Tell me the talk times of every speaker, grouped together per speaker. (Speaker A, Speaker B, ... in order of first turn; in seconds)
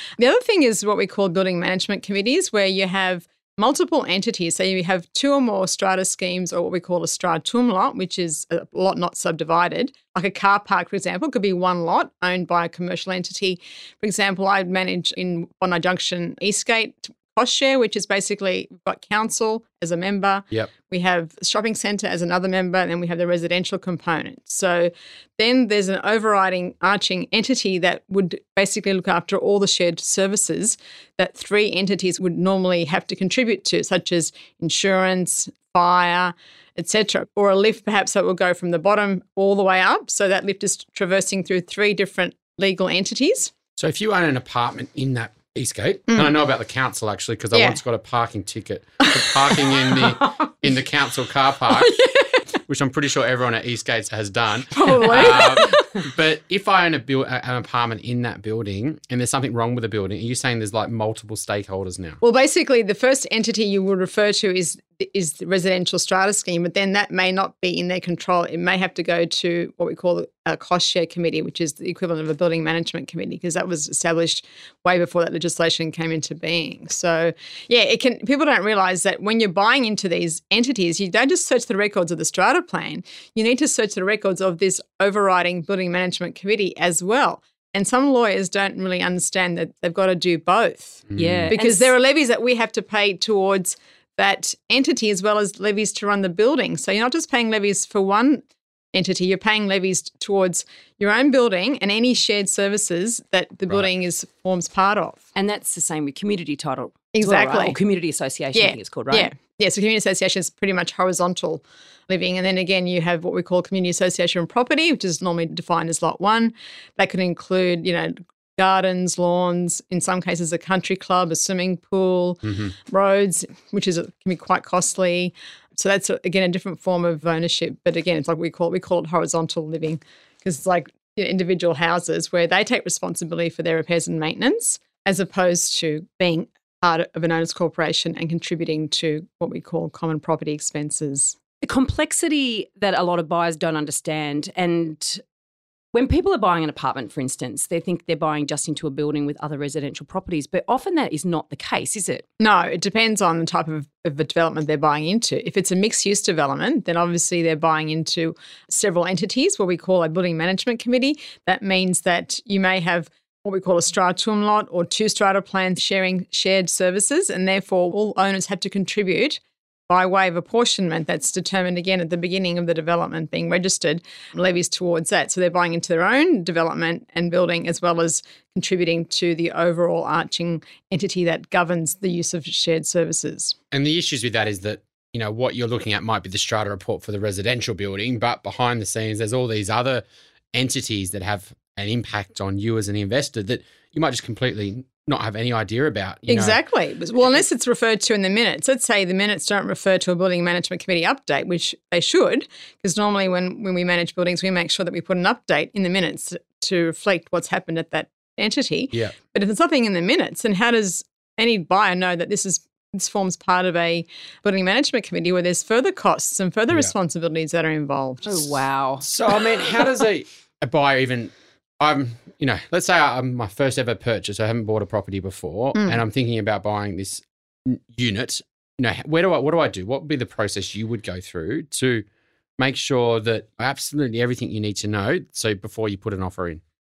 Speaker A: 0.2-43.5, 47.5-47.8, 49.0-50.5, 51.7-52.4, 54.7-55.8, 62.2-105.2, 107.1-107.8, 108.5-141.4, 152.4-183.6, 196.3-218.6
Speaker B: 43.8-51.9, 52.7-62.2, 91.1-91.5, 122.5-122.7, 183.7-196.6, 219.0-232.1, 232.6-236.6
Speaker C: 91.2-91.9, 105.3-109.3, 141.6-145.2, 145.9-152.2, 218.2-219.4